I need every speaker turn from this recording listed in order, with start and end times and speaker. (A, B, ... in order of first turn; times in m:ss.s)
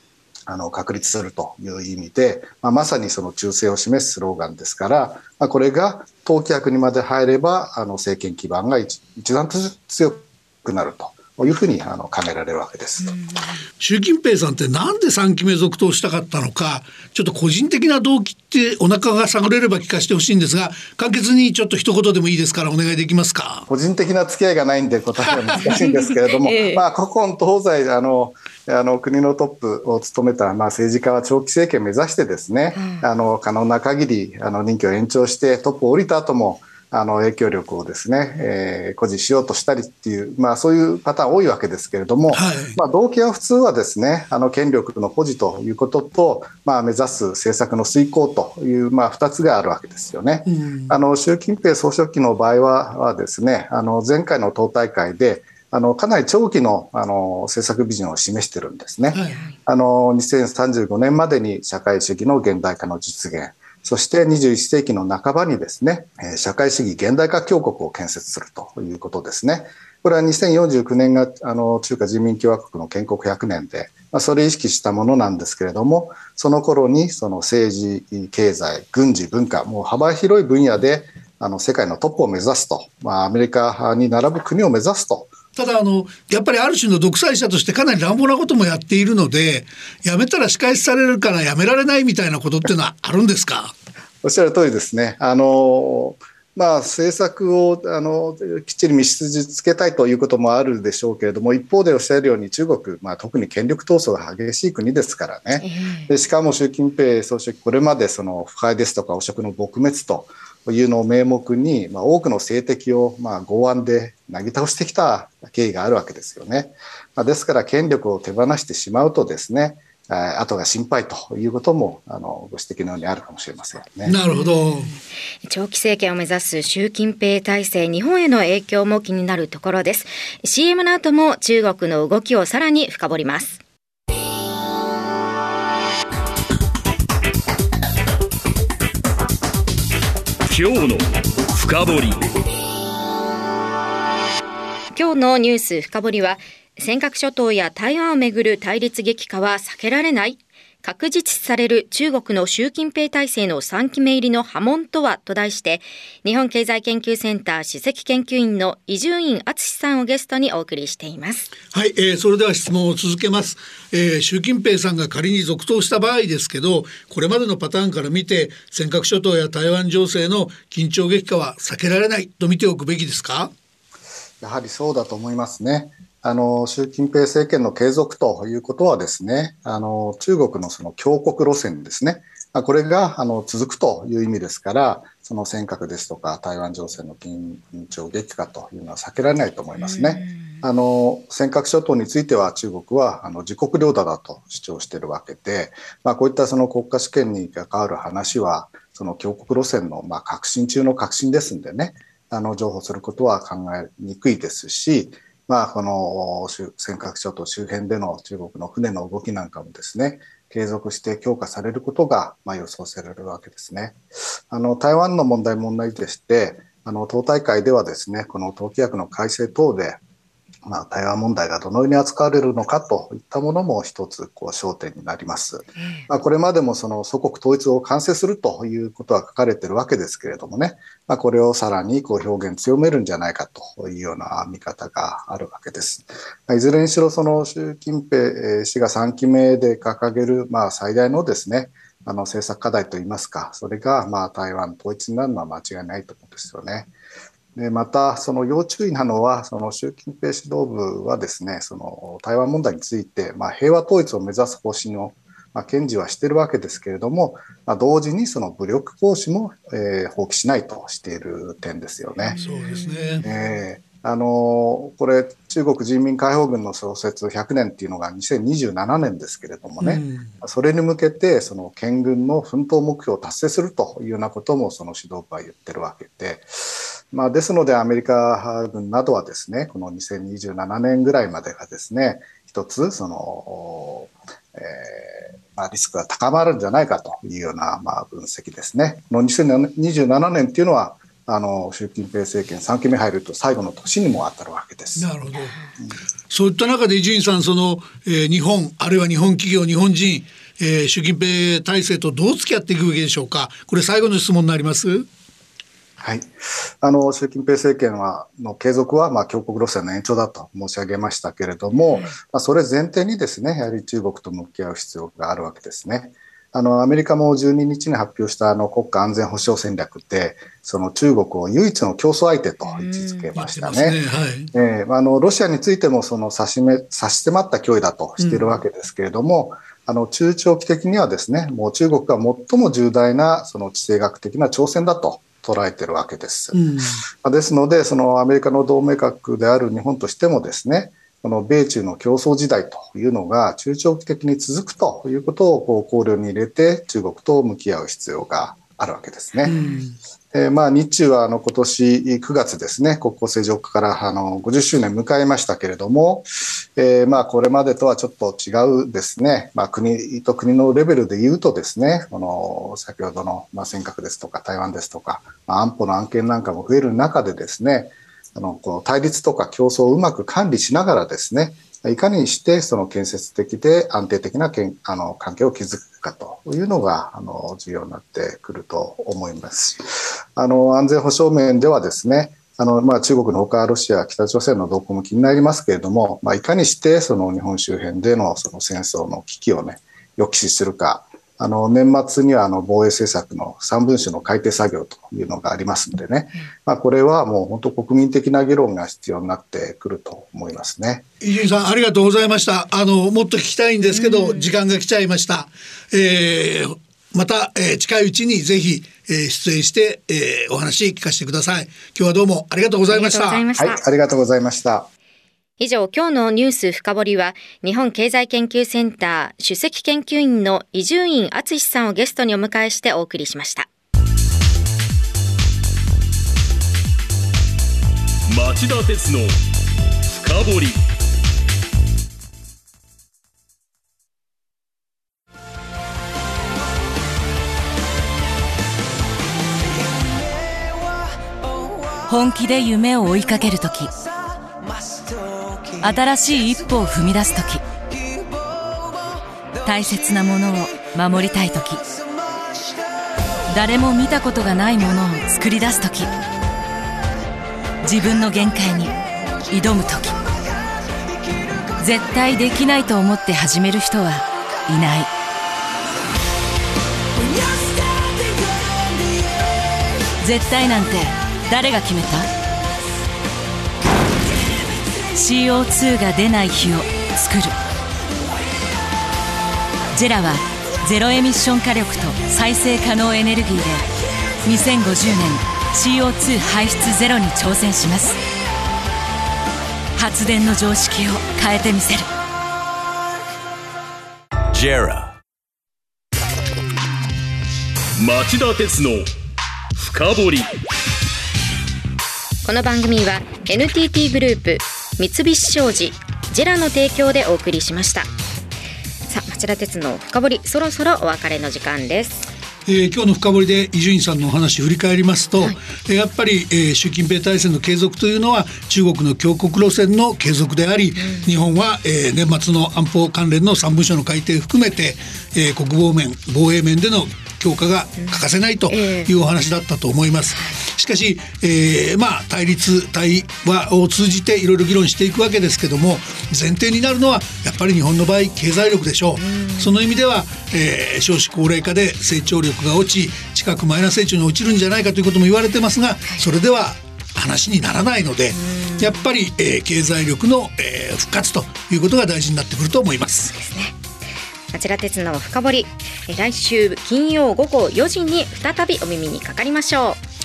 0:00.5-0:13.2 A
0:13.8-0:23.7 B
0:23.7-1:25.3 A
0:25.6-0:26.8 C
0:32.7-0:33.1 C
0:42.3-0:42.8 B
0:50.5-0:50.9 B
0:59.1-0:59.4 B
1:25.6-1:33.7 B
1:34.2-2:04.2 A
1:45.6-1:46.1 C
2:04.0-2:04.9 B
2:05.4-2:13.6 C
2:20.4-2:22.2 D
2:24.9-2:41.5 C
2:41.7-2:53.5 B
2:54.4-3:40.0 A
3:09.9-3:10.5 C
3:40.6-4:06.9 A
4:07.5-4:22.4 A
4:22.4-4:23.2 B
4:23.2-4:55.1 A
4:29.8-4:30.3 B
4:55.0-4:55.6 B
4:56.3-5:05.1 B
5:06.0-5:24.0 A
5:23.4-5:24.5 B
5:24.5-5:36.6 A
5:28.2-5:28.5 B
5:36.5-5:37.0 B
5:37.2-5:49.5 A
5:49.4-5:50.0 B
5:50.3-6:41.0 A
6:41.2-6:53.4 B
6:52.9-6:53.8 C
6:53.6-6:54.9 A
6:55.6-7:03.7 C
7:08.3-7:09.3 D
7:10.1-7:10.8 D
7:22.0-7:23.9 E
7:25.8-7:27.6 E
7:29.6-7:31.9 E
7:33.5-7:36.1 E
7:37.8-7:39.0 E
7:39.5-7:40.2 E
7:41.8-7:45.1 E
7:47.8-7:48.4 E
7:50.2-7:52.3 E
7:55.1-7:57.6 E
7:59.9-8:03.9 E
8:04.4-8:08.2 E
8:10.0-8:12.1 E
8:14.6-8:15.1 D
8:18.0-8:19.1 D
8:19.8-8:20.5 D
8:22.4-8:28.1 C
8:29.1-8:32.3 C
8:32.6-9:13.3 B
8:41.0-8:41.3 C
8:48.7-8:49.1 C
8:59.2-8:59.7 C
9:08.4-9:09.0 C
9:13.3-9:13.8 C
9:14.5-9:20.0 C